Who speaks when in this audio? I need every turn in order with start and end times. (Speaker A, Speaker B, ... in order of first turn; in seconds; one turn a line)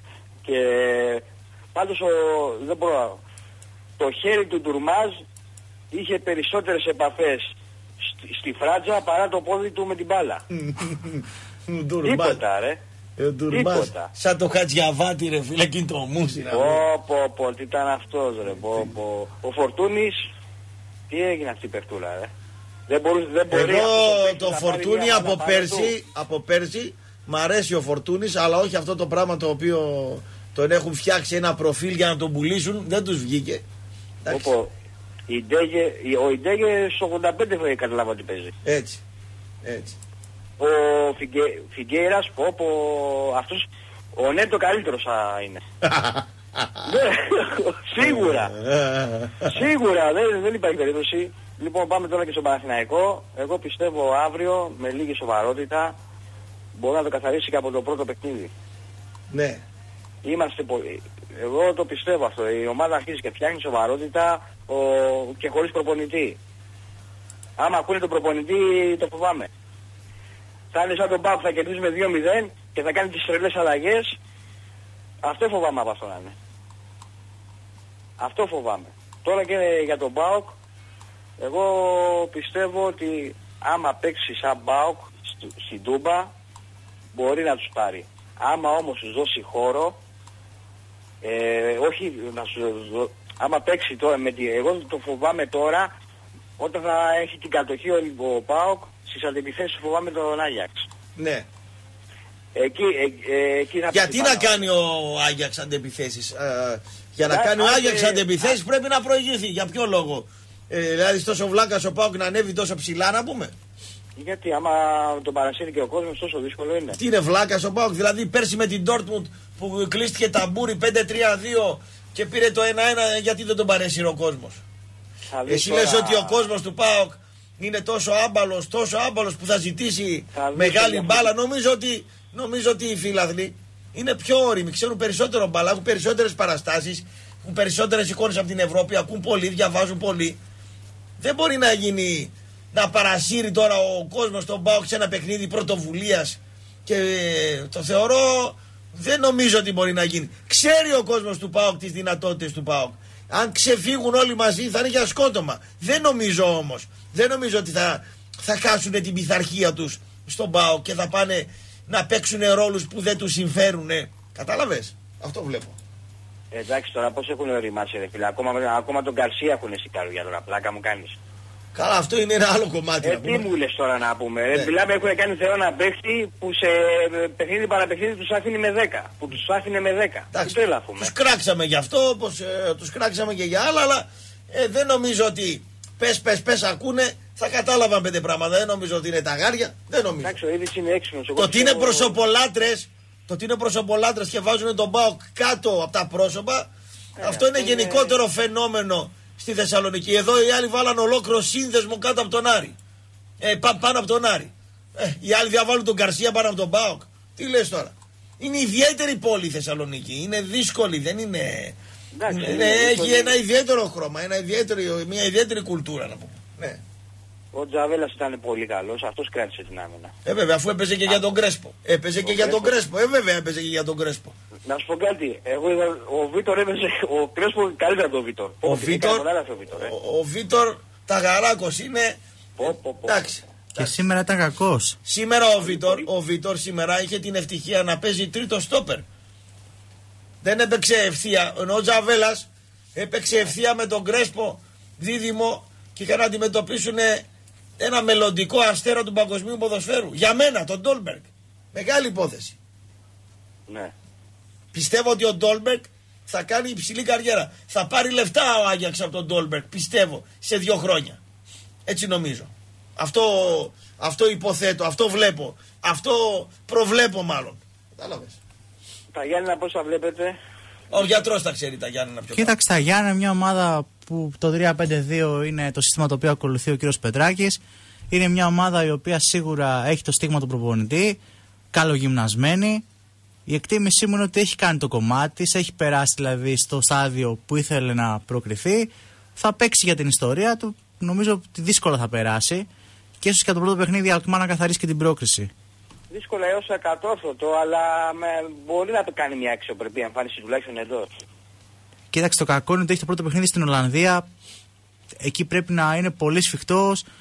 Speaker A: 0.4-1.2
Speaker A: 1.7-3.2
Speaker A: 4.0-5.2
Speaker A: 5.9-7.5
Speaker A: 8.0-10.4
Speaker B: 10.5-12.4
Speaker A: 12.0-12.8
Speaker B: 13.2-16.8
Speaker A: 13.5-14.1
Speaker A: 16.5-20.3
Speaker B: 18.6-18.9
Speaker A: 21.1-22.3
Speaker A: 22.9-25.9
Speaker B: 23.5-33.6
Speaker B: 34.2-34.5
Speaker A: 34.3-34.7
Speaker A: 35.3-38.5
Speaker B: 38.6-39.0
Speaker B: 39.6-40.0
Speaker A: 40.6-45.6
Speaker B: 45.8-47.0
Speaker A: 46.9-48.5
Speaker B: 48.0-49.6
Speaker A: 49.5-55.9
Speaker A: 56.8-58.5
Speaker B: 59.3-59.6
Speaker A: 60.2-66.4
Speaker A: 67.6-69.5
Speaker A: 70.7-74.2
Speaker A: 75.2-76.3
Speaker A: 78.2-80.5
Speaker A: 81.4-86.3
Speaker A: 87.1-90.0
Speaker A: 91.2-95.9
Speaker A: 96.6-100.9
Speaker B: 101.2-101.5
Speaker A: 102.5-104.7
Speaker B: 103.9-113.5
Speaker A: 107.2-108.6
Speaker A: 114.2-117.0
Speaker B: 117.0-124.6
Speaker A: 125.3-126.5
Speaker B: 125.5-140.4
Speaker A: 130.3-131.3
Speaker B: 141.2-165.8
Speaker A: 166.5-171.2
Speaker B: 171.7-173.5
Speaker A: 173.0-181.1
Speaker B: 180.3-190.4
Speaker A: 190.2-192.2
Speaker B: 191.3-196.7
Speaker A: 197.2-198.2
Speaker B: 197.2-202.8
Speaker B: 203.4-211.8
Speaker A: 212.1-213.4
Speaker B: 212.3-216.8
Speaker A: 217.5-220.1
Speaker B: 220.2-224.3
Speaker A: 222.2-222.8
Speaker A: 224.7-229.9
Speaker B: 228.6-233.9
Speaker A: 232.6-233.4
Speaker C: 233.8-234.9
Speaker B: 235.1-239.0
Speaker A: 235.6-236.1
Speaker B: 240.4-247.2
Speaker B: 247.8-252.6
Speaker B: 254.7-261.2
Speaker B: 261.9-268.4
Speaker A: 269.1-270.4
Speaker B: 270.9-272.6
Speaker C: 272.3-281.2
Speaker C: 281.7-282.8
Speaker C: 283.5-292.7
Speaker C: 293.2-295.5
Speaker A: 296.1-301.1
Speaker C: 302.1-304.2
Speaker C: 305.2-307.0